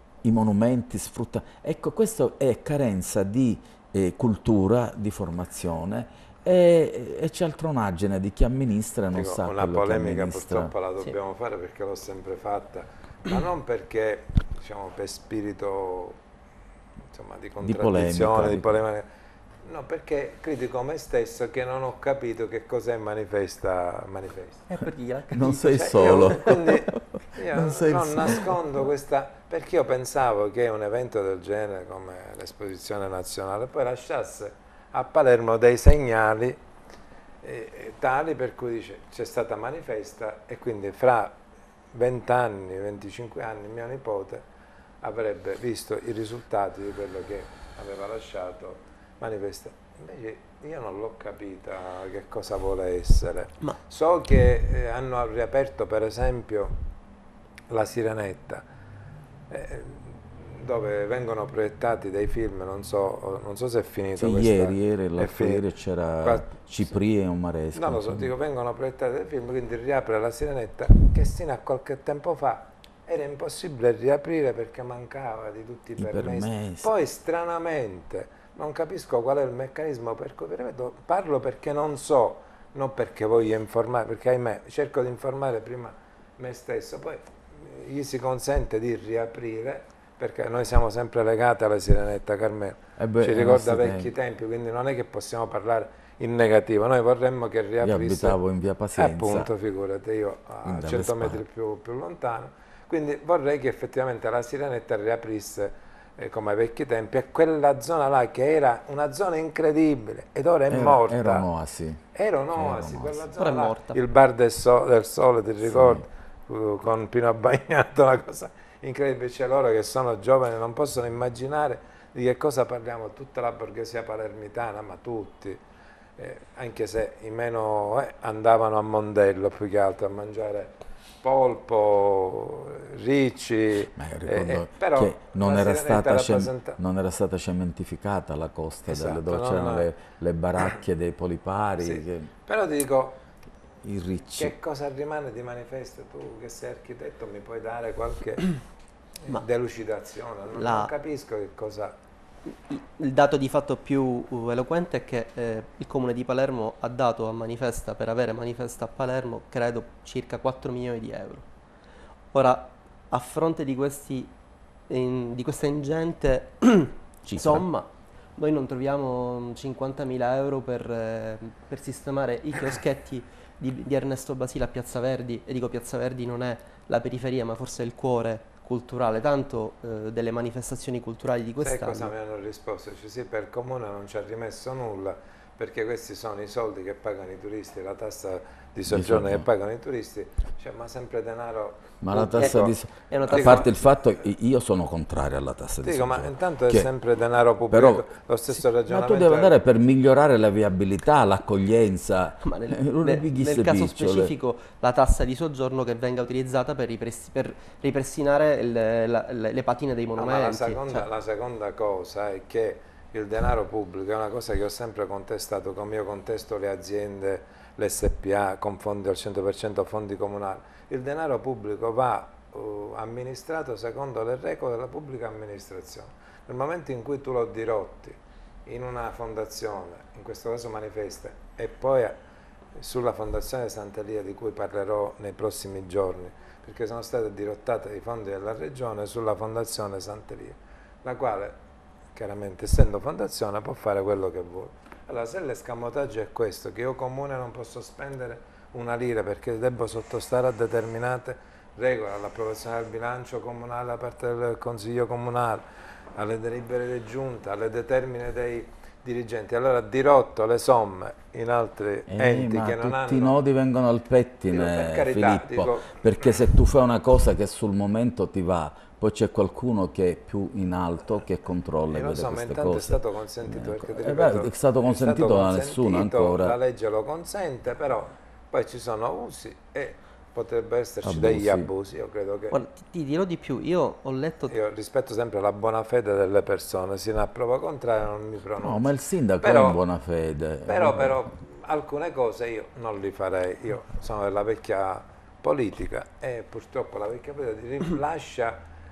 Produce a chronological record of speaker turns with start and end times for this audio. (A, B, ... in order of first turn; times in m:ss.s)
0:00.2-0:10.7 A
0:09.1-0:16.2 B
0:17.1-0:19.0 B
0:17.6-0:18.8 A
0:19.6-0:24.7 B
0:24.7-0:26.7 C
0:25.3-0:28.5 A
0:25.4-0:36.6 B
0:37.4-0:41.4 B
0:41.9-0:44.4 B
0:45.0-0:56.8 B
0:57.7-0:58.6 B
0:59.5-1:05.6 B
1:04.2-1:08.3 A
1:06.2-1:06.7 B
1:07.7-1:38.4 B
1:16.0-1:16.9 A
1:33.0-1:34.1 A
1:37.8-1:39.5 A
1:39.0-1:51.5 B
1:40.6-1:41.4 A
1:50.7-1:52.0 A
1:52.1-2:05.6 B
1:52.6-1:53.3 A
1:53.4-1:54.0 C
1:55.7-1:56.0 A
2:06.2-2:16.8 B
2:14.0-2:22.3 A
2:18.9-2:19.9 B
2:21.8-2:23.2 B
2:23.8-2:24.5 A
2:24.4-2:28.6 B
2:29.3-2:32.0 B
2:30.5-2:30.9 C
2:32.7-2:41.5 C
2:42.3-2:44.3 C
2:44.9-3:02.1 C
2:47.3-2:47.7 A
3:01.6-3:12.8 B
3:08.9-3:09.5 A
3:12.0-3:16.9 A
3:12.2-3:13.7 C
3:13.3-3:13.7 B
3:15.8-3:19.6 B
3:17.7-3:24.3 A
3:22.4-3:31.1 C
3:30.2-3:52.2 B
3:52.8-4:01.6 B
4:02.2-4:23.4 B
4:22.1-4:36.6 A
4:24.5-4:26.5 B
4:31.9-4:42.6 B
4:41.0-4:41.7 A
4:42.5-4:44.5 C
4:44.5-4:49.8 B
4:48.6-4:51.2 A
4:50.7-4:58.6 B